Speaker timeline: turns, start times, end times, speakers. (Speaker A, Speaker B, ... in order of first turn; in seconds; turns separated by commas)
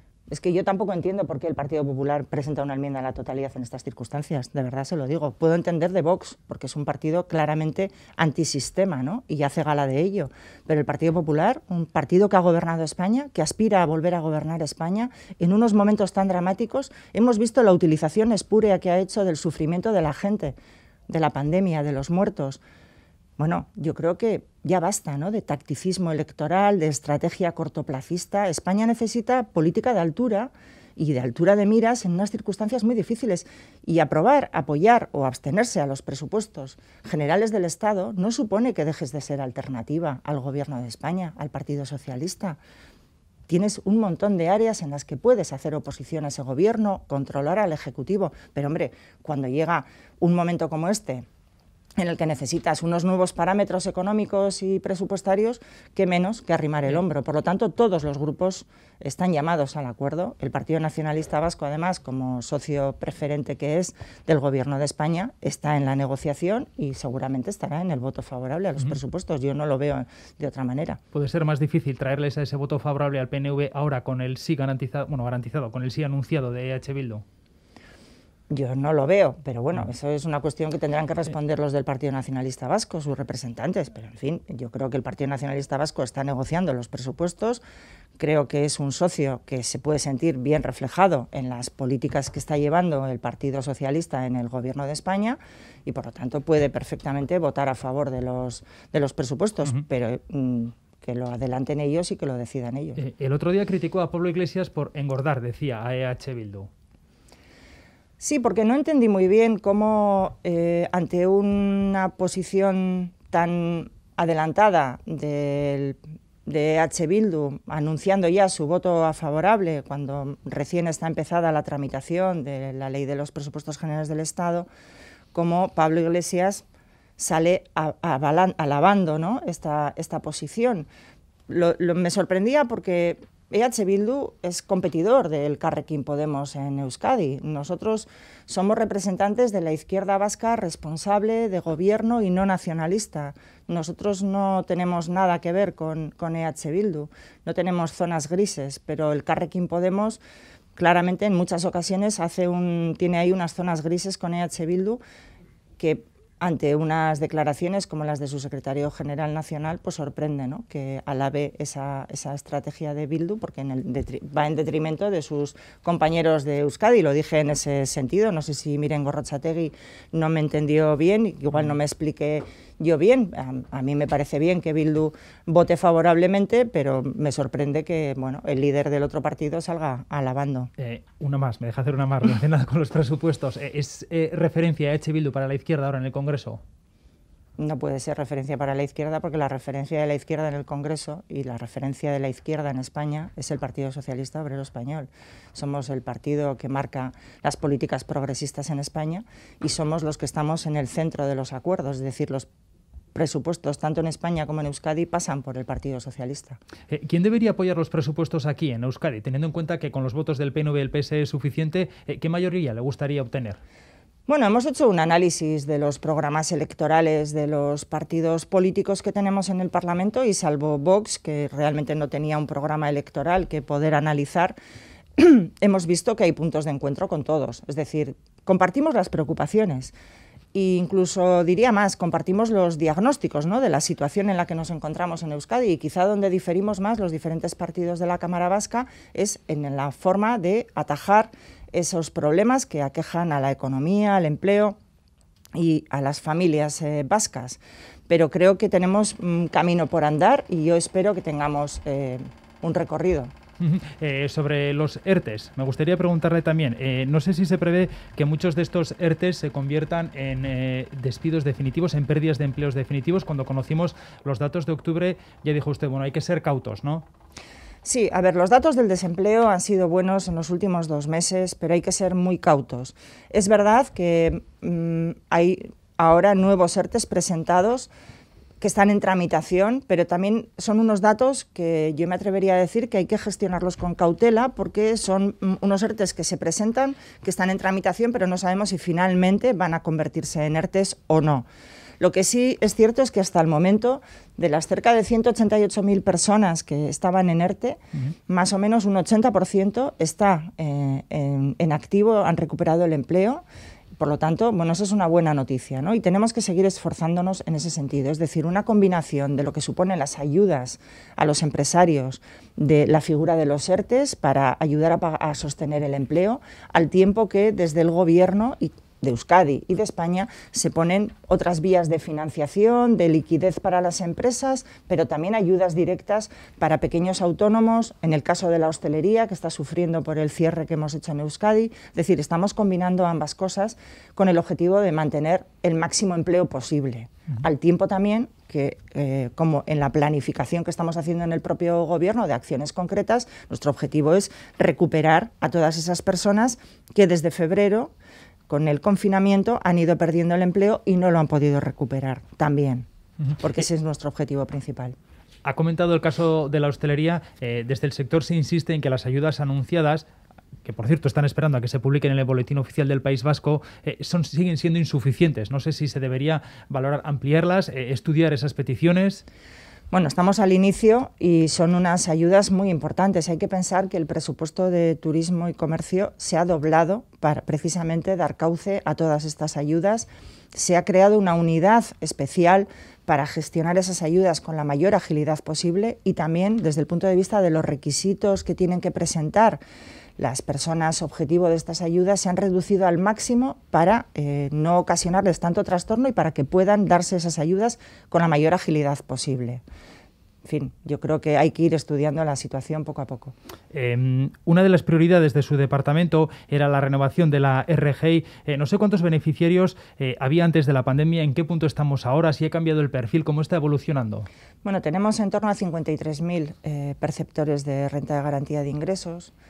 Speaker A: 0.3-20.6, Speaker A: 21.1-22.6, Speaker A: 23.4-42.6, Speaker A: 43.5-51.2, Speaker A: 52.0-71.0, Speaker B: 71.1-77.2, Speaker A: 78.5-87.6, Speaker A: 88.2-103.0, Speaker B: 103.0-106.7, Speaker A: 108.2-124.7, Speaker A: 125.3-126.6, Speaker A: 127.2-130.9, Speaker A: 131.5-150.2, Speaker A: 150.8-155.0, Speaker A: 155.8-180.7, Speaker B: 180.8-186.6, Speaker A: 187.6-202.5, Speaker A: 203.1-206.6, Speaker B: 206.9-213.6, Speaker A: 214.3-224.5, Speaker A: 225.2-229.9, Speaker A: 230.5-244.8, Speaker A: 245.5-253.3, Speaker B: 253.6-267.0, Speaker A: 267.8-277.9, Speaker A: 278.6-291.4, Speaker A: 292.0-303.4, Speaker A: 304.0-347.9, Speaker A: 348.5-352.9, Speaker A: 353.4-354.9, Speaker B: 355.4-360.1, Speaker B: 360.6-369.2, Speaker A: 369.9-389.6, Speaker A: 390.2-399.6, Speaker A: 400.4-403.3, Speaker B: 403.7-414.3, Speaker A: 414.6-419.3